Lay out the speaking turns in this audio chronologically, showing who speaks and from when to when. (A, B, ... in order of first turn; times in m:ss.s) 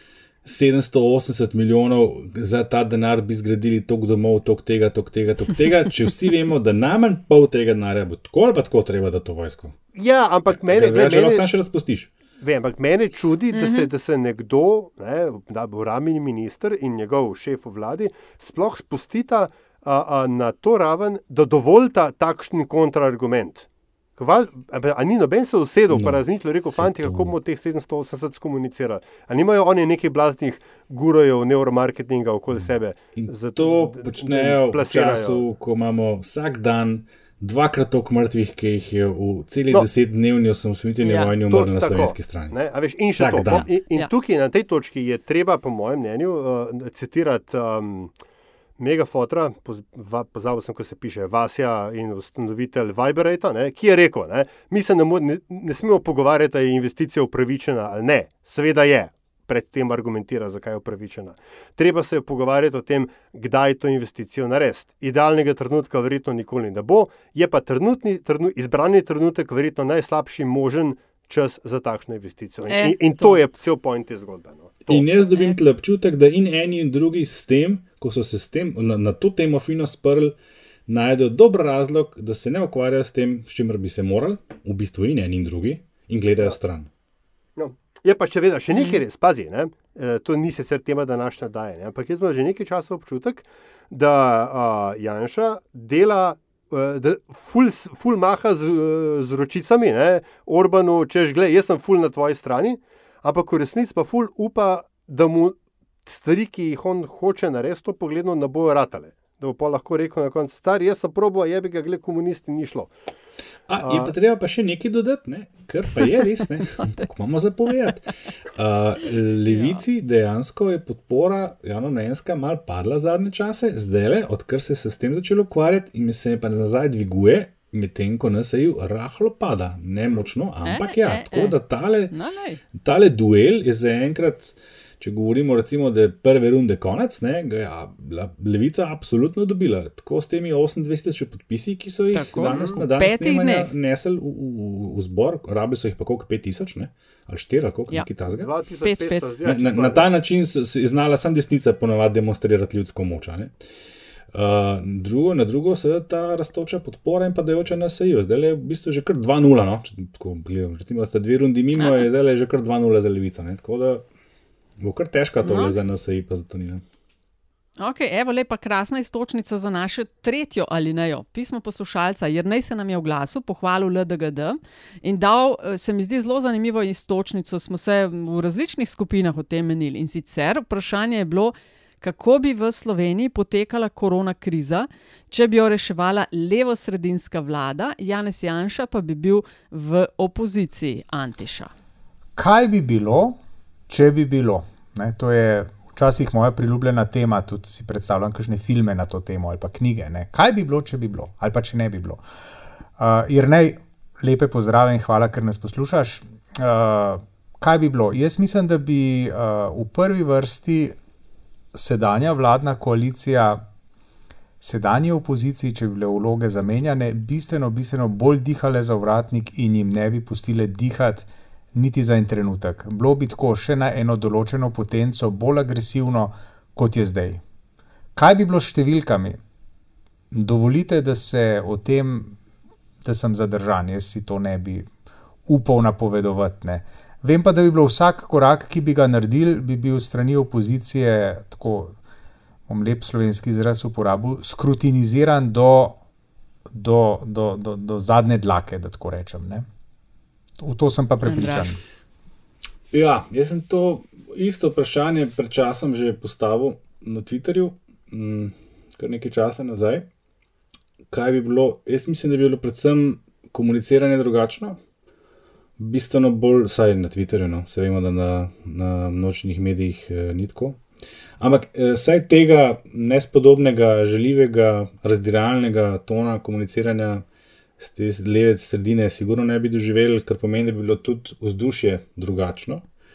0:00.4-0:09.8 A
0:10.0-0:11.4 B
0:10.5-0:12.1 A
0:12.4-0:23.6 B
0:13.5-0:13.9 C
0:24.2-0:35.4 B
0:25.9-0:27.4 A
0:32.5-0:42.6 A
0:41.0-0:41.3 C
0:41.5-0:48.1 B
0:43.1-0:43.7 A
0:48.8-1:15.0 B
1:12.7-1:13.4 C
1:14.9-1:20.4 A
1:20.9-1:26.9 A
1:27.6-1:52.9 B
1:28.7-1:29.0 C
1:53.7-2:12.1 A
1:53.8-1:54.1 B
1:59.5-1:59.8 C
2:10.6-2:11.6 C
2:12.1-2:12.6 C
2:12.8-2:28.5 A
2:22.1-2:23.7 C
2:28.4-2:30.0 B
2:28.8-2:29.2 C
2:29.4-2:33.5 A
2:34.3-2:44.0 A
2:41.8-2:42.1 C
2:44.8-2:46.8 A
2:45.4-2:45.8 C
2:47.8-3:11.7 C
3:12.4-3:22.2 D
3:23.0-3:31.0 D
3:31.7-3:33.6 D
3:34.6-3:47.4 D
3:48.1-3:49.4 D
3:50.3-3:52.4 D
3:53.0-3:54.9 D
3:55.5-4:02.0 D
4:02.7-4:06.0 D
4:06.7-4:09.7 D
4:10.6-4:11.8 D
4:11.2-4:11.7 C
4:12.9-4:20.1 A
4:21.1-4:24.8 A
4:25.8-4:30.8 A
4:31.4-4:37.2 A
4:37.8-4:42.8 A